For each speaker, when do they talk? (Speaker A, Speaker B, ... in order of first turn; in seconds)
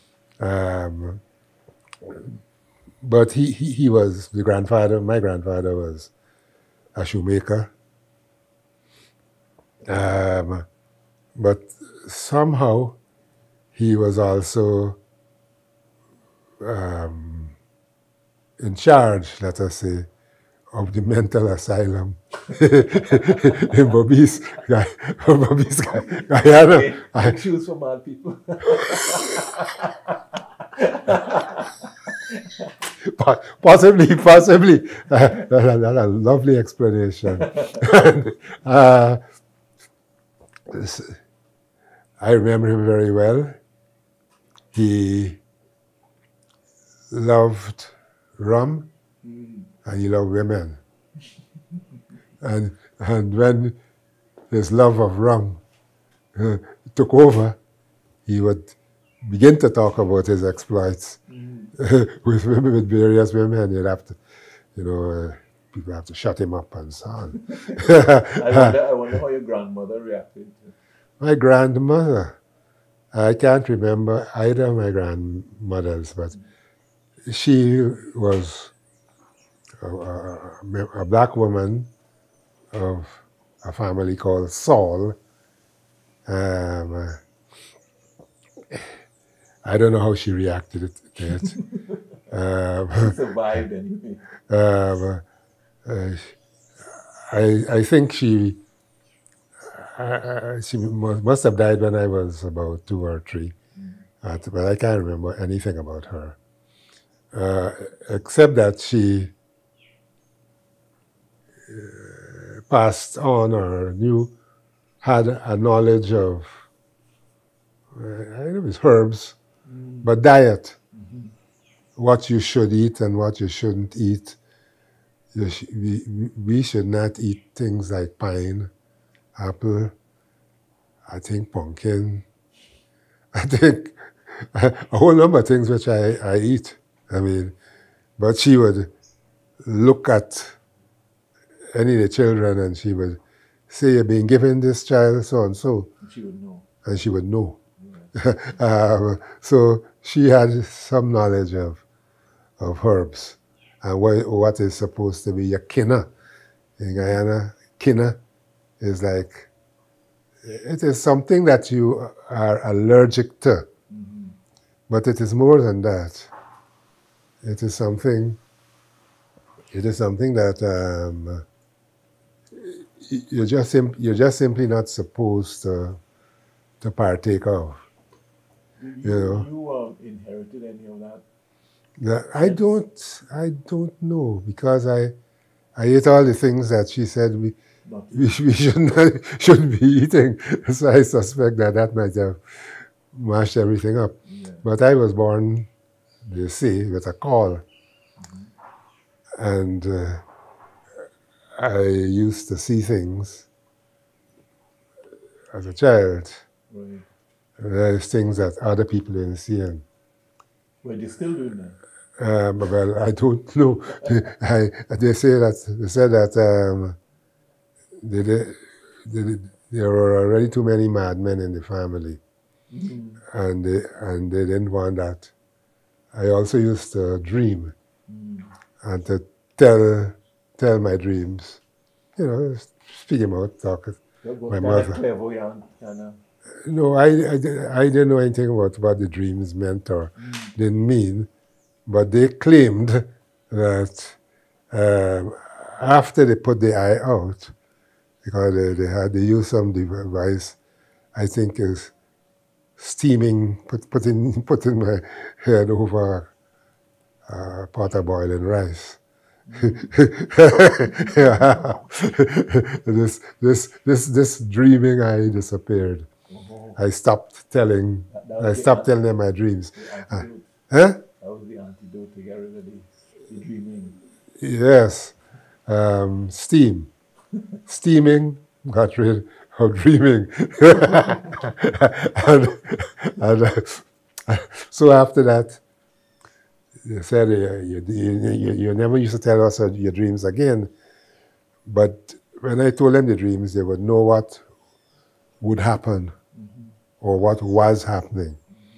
Speaker A: 0.4-1.2, 3.0-6.1, 6.9-7.7, 9.8-10.7, 11.3-13.0, 13.8-15.0, 16.6-17.6, 18.6-20.1, 20.7-27.4, 33.0-39.2, 40.7-41.2, 42.2-43.6, 44.7-45.4, 47.1-48.9, 49.8-50.8, 52.4-53.8, 54.5-55.6, 56.4-57.6, 58.2-61.2, 61.8-64.2, 64.8-68.7, 71.2-72.3, 73.1-76.3, 77.3-78.7, 79.8-81.9, 82.7-85.2, 86.3-87.2, 89.7-91.6, 92.3-93.1, 94.5-95.2, 95.8-96.3, 96.9-98.6, 99.7-103.5, 104.2-106.4, 107.3-109.3, 111.7-114.3, 115.0-116.7, 118.0-119.4, 120.0-120.8, 122.0-124.4, 125.3-128.7, 129.3-129.9, 131.1-132.2, 133.3-137.5, 138.2-138.9, 139.6-140.6, 141.7-145.9, 146.8-147.6, 148.2-151.8, 152.6-156.1, 156.8-158.2, 158.8-159.5, 160.4-163.7, 164.9-166.3, 167.4-168.4, 169.7-171.4, 172.5-176.0, 176.8-177.8, 179.0-179.5, 182.0-185.2, 185.8-187.6, 188.1-195.7, 196.3-197.6, 199.4-200.2, 201.6-203.5, 205.5-206.4, 207.6-209.8, 212.2-217.0, 218.0-222.2, 223.3-225.3, 226.1-227.7, 228.8-231.6, 232.2-235.0, 236.7-241.3, 241.9-244.2, 244.7-247.5, 248.2-250.6, 251.2-251.9, 252.8-256.3, 257.3-259.0, 259.6-266.1, 266.8-271.0, 274.4-275.1, 275.7-276.9, 277.7-285.6, 286.8-290.7, 291.6-294.4, 295.4-296.1, 297.0-298.4
Speaker B: 25.9-32.7, 37.4-37.7, 49.2-49.7, 61.3-61.7, 67.6-70.7, 93.0-94.3, 103.8-104.0, 119.7-120.1, 120.9-121.3, 146.0-146.7, 147.8-148.1, 163.9-164.4, 178.8-181.2, 182.4-182.7, 187.8-188.4, 194.3-194.6, 198.2-198.5, 206.7-207.0, 210.8-211.8, 222.7-223.2, 228.1-228.5, 234.2-236.2, 240.2-240.5, 259.5-259.9, 261.0-261.5, 266.3-266.8, 268.1-268.9, 269.8-270.5, 271.2-274.0, 296.3-296.8